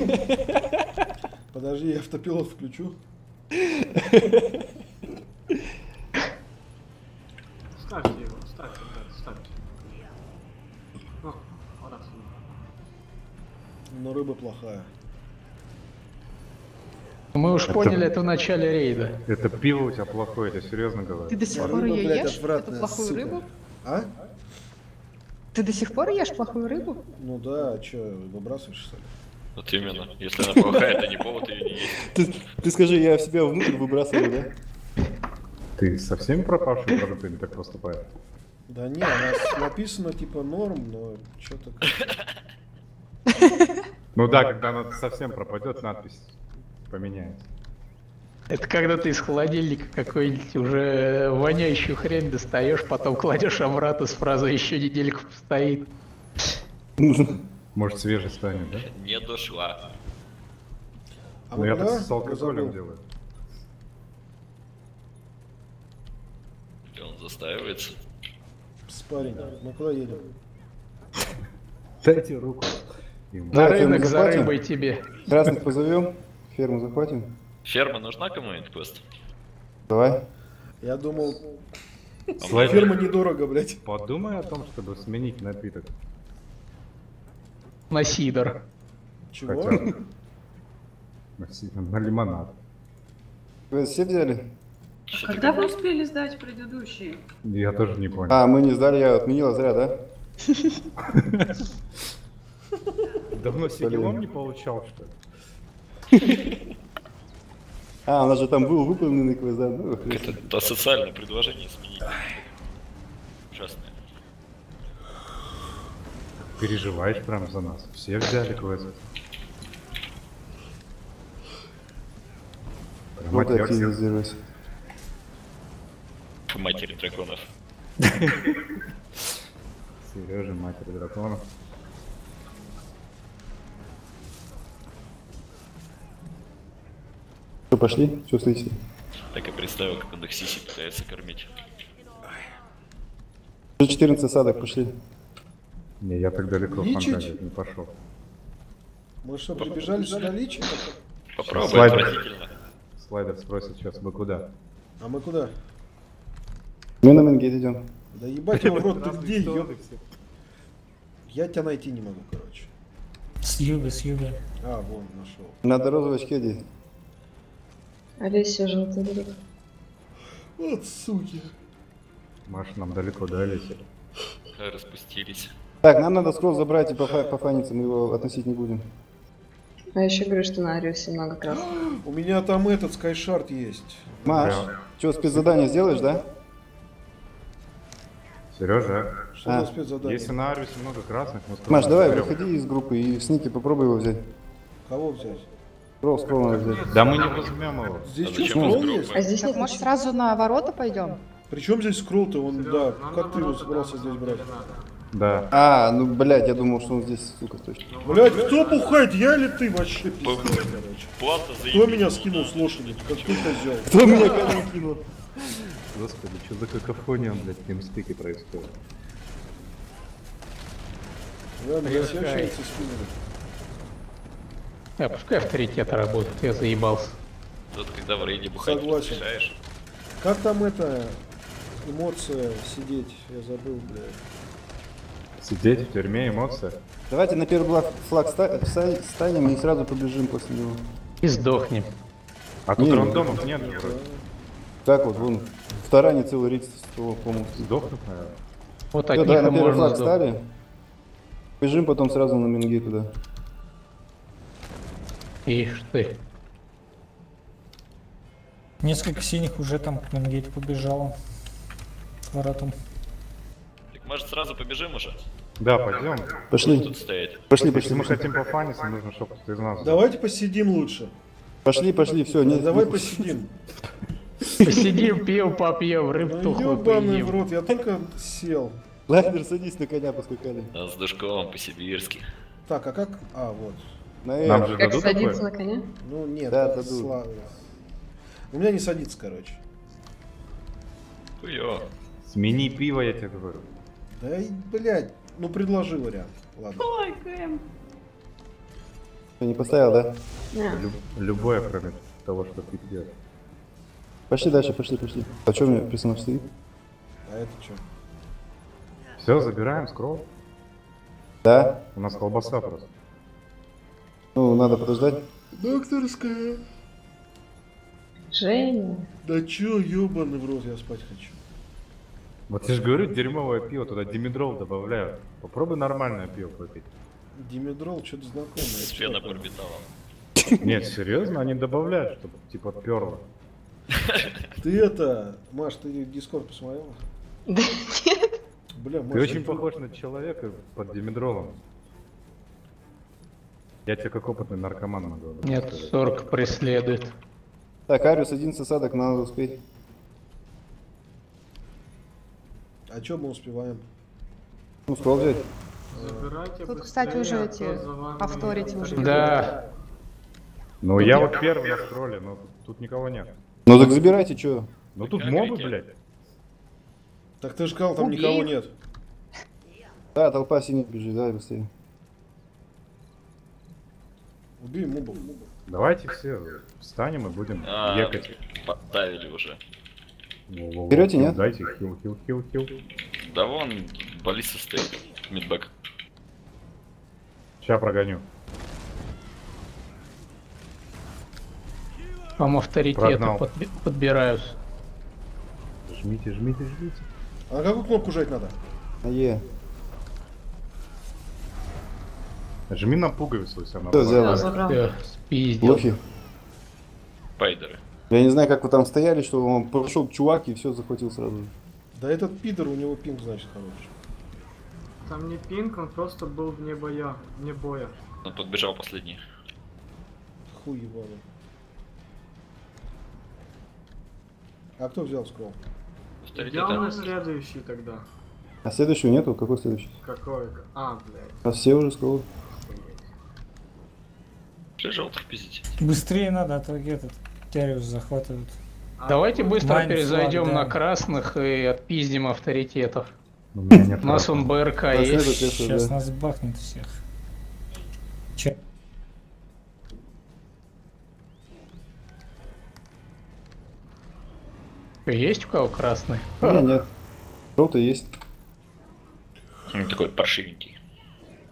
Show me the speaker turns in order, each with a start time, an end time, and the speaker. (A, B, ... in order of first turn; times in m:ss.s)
0:01.5-0:03.0 A
0:07.8-0:09.6 B
0:11.2-0:12.4 B
0:13.9-0:14.9 A
0:17.4-0:19.1 C
0:17.7-0:18.0 D
0:19.2-0:21.8 D
0:21.3-0:23.4 E
0:21.5-0:24.1 A
0:25.5-0:27.0 E
0:27.2-0:29.1 A
0:29.6-0:32.1 F
0:30.5-0:30.9 G
0:32.0-0:34.5 G
0:35.8-0:38.0 D
0:38.7-0:42.2 A
0:44.2-0:46.4 D
0:46.9-0:47.5 D
0:48.5-0:55.8 C
0:57.0-0:57.4 G
0:57.7-0:58.9 D
0:58.9-0:59.8 F
1:01.5-1:02.8 A
1:01.5-1:03.0 D
1:06.9-1:07.9 F
1:08.9-1:10.2 A
1:12.0-1:13.6 D
1:13.5-1:14.5 G
1:13.5-1:15.0 C
1:15.3-1:17.3 G
1:17.6-1:19.0 F
1:19.9-1:20.2 G
1:20.8-1:21.4 A
1:22.4-1:22.9 F
1:22.4-1:23.8 A
1:22.4-1:23.0 D
1:23.8-1:25.9 D
1:27.9-1:28.6 C
1:29.3-1:29.8 A
1:29.5-1:29.9 D
1:31.4-1:32.6 D
1:33.7-1:34.4 G
1:35.1-1:35.7 F
1:35.2-1:37.2 H
1:37.4-1:38.4 D
1:38.3-1:40.0 G
1:41.1-1:41.5 D
1:43.3-1:45.2 D
1:43.8-1:44.2 G
1:48.1-1:50.4 G
1:50.1-1:52.4 F
1:53.5-1:53.9 F
1:56.6-1:58.9 D
2:03.2-2:03.9 D
2:03.3-2:04.4 G
2:06.5-2:07.4 F
2:08.0-2:08.5 D
2:10.0-2:11.4 D
2:17.7-2:18.8 G
2:19.3-2:21.5 F
2:23.8-2:24.9 G
2:26.0-2:27.9 D
2:26.7-2:27.4 A
2:29.2-2:30.9 A
2:31.4-2:32.5 F
2:31.4-2:32.2 D
2:33.0-2:34.5 D
2:35.0-2:35.5 A
2:37.0-2:37.8 G
2:38.1-2:39.7 A
2:38.6-2:39.0 D
2:39.6-2:40.0 B
2:41.3-2:42.7 A
2:43.4-2:44.4 I
2:44.6-2:45.6 A
2:45.6-2:46.6 G
2:48.2-2:49.3 J
2:50.6-2:51.5 A
2:52.5-2:53.8 D
2:54.6-2:55.5 F
2:55.8-2:58.8 G
3:00.0-3:01.8 J
3:01.5-3:04.6 A
3:04.2-3:06.2 G
3:04.3-3:04.7 D
3:08.5-3:09.3 D
3:09.4-3:10.4 A
3:09.4-3:09.7 G
3:10.0-3:12.4 D
3:11.7-3:14.2 G
3:14.8-3:15.5 A
3:16.0-3:17.1 G
3:16.5-3:18.0 B
3:16.8-3:18.2 D
3:18.0-3:19.2 A
3:18.2-3:19.3 F
3:18.5-3:18.8 G
3:19.1-3:19.9 J
3:19.2-3:21.2 E
3:21.5-3:24.5 A
3:22.4-3:24.9 B
3:25.1-3:25.5 D
3:25.5-3:27.8 G
3:27.9-3:29.0 B
3:28.0-3:31.1 A
3:30.2-3:33.7 F
3:31.7-3:34.0 A
3:33.9-3:35.0 G
3:35.9-3:38.8 D
3:41.6-3:43.1 A
3:41.8-3:42.5 C
3:45.0-3:47.2 C
3:47.7-3:49.6 F
3:48.6-3:49.2 A
3:50.2-3:51.2 A
3:51.8-3:54.2 A
3:55.4-3:56.8 D
3:57.1-4:00.8 G
4:01.2-4:01.9 C
4:02.7-4:04.0 D
4:02.8-4:03.3 G
4:02.9-4:04.2 A
4:04.8-4:07.7 G
4:07.6-4:08.4 D
4:08.9-4:10.2 C
4:09.1-4:10.4 G
4:11.6-4:13.1 G
4:15.5-4:16.2 C
4:18.8-4:21.2 I
4:22.3-4:22.8 I
4:23.9-4:25.2 F
4:25.6-4:26.3 D
4:26.5-4:26.9 G
4:26.6-4:27.5 F
4:27.5-4:28.3 G
4:27.6-4:30.1 D
4:29.8-4:31.1 A
4:31.6-4:33.3 G
4:32.4-4:33.5 A
4:34.6-4:37.4 C
4:36.2-4:38.8 A
4:39.1-4:40.7 G
4:40.7-4:42.2 F
4:42.7-4:43.9 A
4:44.2-4:45.2 G
4:44.4-4:45.4 D
4:44.8-4:45.8 J
4:46.0-4:47.6 A
4:46.5-4:47.2 G
4:48.5-4:49.6 A
4:51.4-4:51.9 F
4:52.3-4:53.7 D
4:54.2-4:56.9 A
4:56.8-4:57.6 H
4:59.4-5:00.1 G
5:00.5-5:00.9 J
5:00.7-5:03.1 D
5:04.3-5:06.4 G
5:07.3-5:07.8 A
5:09.2-5:10.2 D
5:11.4-5:11.8 G
5:11.9-5:12.9 D
5:14.4-5:15.2 G
5:15.5-5:16.6 A
5:18.3-5:19.1 J
5:19.2-5:21.4 A
5:22.5-5:26.9 D
5:27.3-5:29.4 A
5:28.6-5:29.8 F
5:30.6-5:33.3 D
5:34.0-5:34.3 F
5:34.6-5:37.0 A
5:37.5-5:38.2 J
5:38.8-5:39.7 A
5:39.1-5:41.6 D
5:43.9-5:45.9 D
5:45.4-5:47.1 C
5:47.9-5:49.6 G
5:52.9-5:53.8 A
5:54.9-5:55.4 G
5:55.9-5:59.6 B
5:55.9-5:56.3 A
5:56.6-5:59.5 E
5:59.0-5:59.5 C
6:00.8-6:03.3 D
6:03.7-6:04.7 G
6:05.0-6:06.0 D
6:05.0-6:05.8 F
6:07.4-6:08.7 A
6:10.2-6:11.7 G
6:14.6-6:15.3 A
6:15.7-6:18.3 D
6:17.6-6:19.6 F
6:20.5-6:22.7 D
6:20.9-6:21.4 G
6:23.2-6:25.7 F
6:27.6-6:28.2 D
6:32.4-6:34.6 C
6:33.0-6:33.4 D
6:35.9-6:37.0 D
6:37.5-6:38.6 A
6:39.0-6:39.4 G
6:42.7-6:44.6 D
6:43.9-6:44.5 G
6:44.1-6:44.9 J
6:44.7-6:45.8 C
6:45.6-6:46.0 G
6:47.4-6:47.8 F
6:48.1-6:51.5 G
6:52.0-6:53.9 A
6:55.0-6:58.0 B
6:58.2-6:59.2 F
7:00.5-7:01.2 A
7:04.8-7:05.6 A
7:06.2-7:07.2 F
7:06.3-7:08.1 B
7:08.6-7:09.9 G
7:10.0-7:11.4 B
7:11.4-7:12.3 G
7:12.4-7:13.1 B
7:14.8-7:15.7 F
7:15.8-7:18.6 I
7:19.0-7:19.7 B
7:19.1-7:23.1 C
7:19.6-7:20.8 I
7:23.5-7:24.5 D
7:24.0-7:25.4 C
7:24.9-7:25.9 G
7:25.4-7:27.0 I
7:35.1-7:36.6 C
7:36.4-7:36.9 G
7:37.6-7:38.1 G
7:39.7-7:40.8 F